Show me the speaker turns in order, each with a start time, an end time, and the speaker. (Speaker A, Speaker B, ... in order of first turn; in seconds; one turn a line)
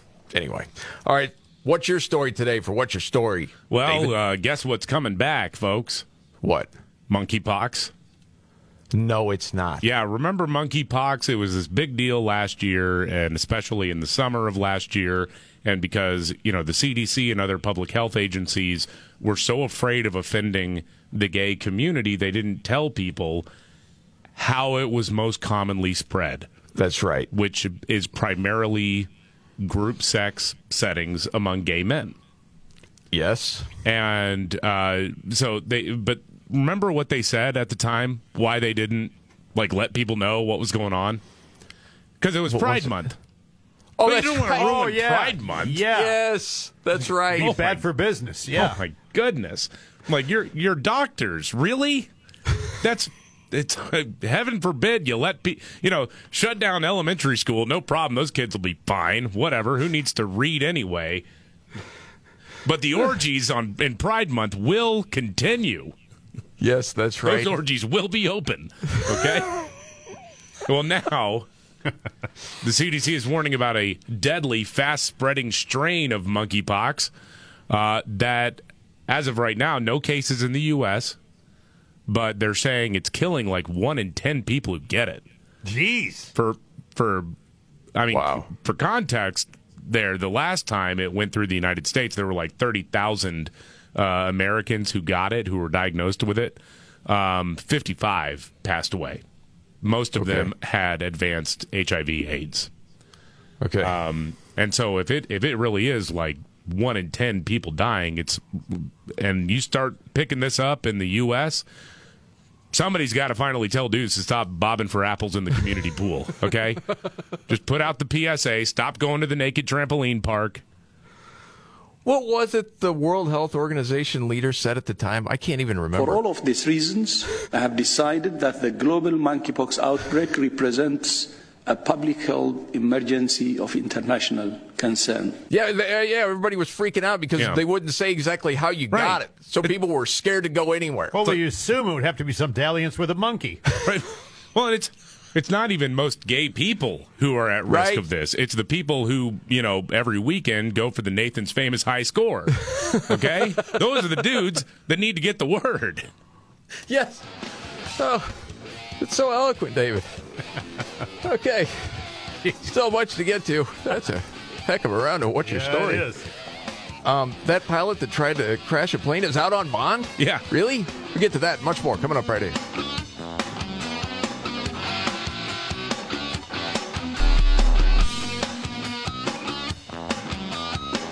Speaker A: 0.3-4.1
Speaker B: 3.7-6.0
Speaker A: 6.4-6.7
Speaker B: 7.1-7.9
Speaker A: 8.9-9.8
Speaker B: 9.8-23.5
Speaker B: 24.4-26.5
Speaker A: 26.8-27.3
Speaker B: 27.3-29.1
Speaker B: 29.6-32.1
Speaker A: 33.1-33.7
Speaker B: 33.8-41.2
Speaker B: 42.2-43.1
Speaker A: 42.5-43.0
Speaker A: 44.0-45.0
Speaker B: 44.0-45.9
Speaker C: 44.5-46.1
Speaker A: 45.9-47.7
Speaker C: 47.3-48.8
Speaker B: 47.5-47.7
Speaker B: 48.5-52.1
Speaker B: 52.8-61.2
Speaker B: 62.6-65.9
Speaker A: 66.6-67.5
Speaker B: 67.2-69.6
Speaker B: 70.7-71.5
Speaker B: 72.6-77.1
Speaker B: 77.7-81.2
Speaker B: 82.1-85.2
Speaker C: 85.6-86.3
Speaker B: 86.3-87.3
Speaker B: 87.9-99.2
Speaker A: 88.1-88.5
Speaker B: 99.8-102.7
Speaker A: 100.2-100.5
Speaker A: 103.6-103.9
Speaker B: 103.8-111.6
Speaker B: 112.7-116.8
Speaker B: 117.5-120.6
Speaker A: 122.0-126.2
Speaker D: 125.9-135.4
Speaker A: 135.5-141.3
Speaker B: 138.9-139.7
Speaker C: 141.1-143.6
Speaker B: 143.8-156.1
Speaker A: 147.7-148.0
Speaker A: 156.9-157.2
Speaker A: 158.0-158.3
Speaker A: 159.0-160.2
Speaker A: 161.2-161.9
Speaker A: 162.6-166.1
Speaker C: 165.4-166.3
Speaker A: 167.0-172.6
Speaker B: 170.2-170.4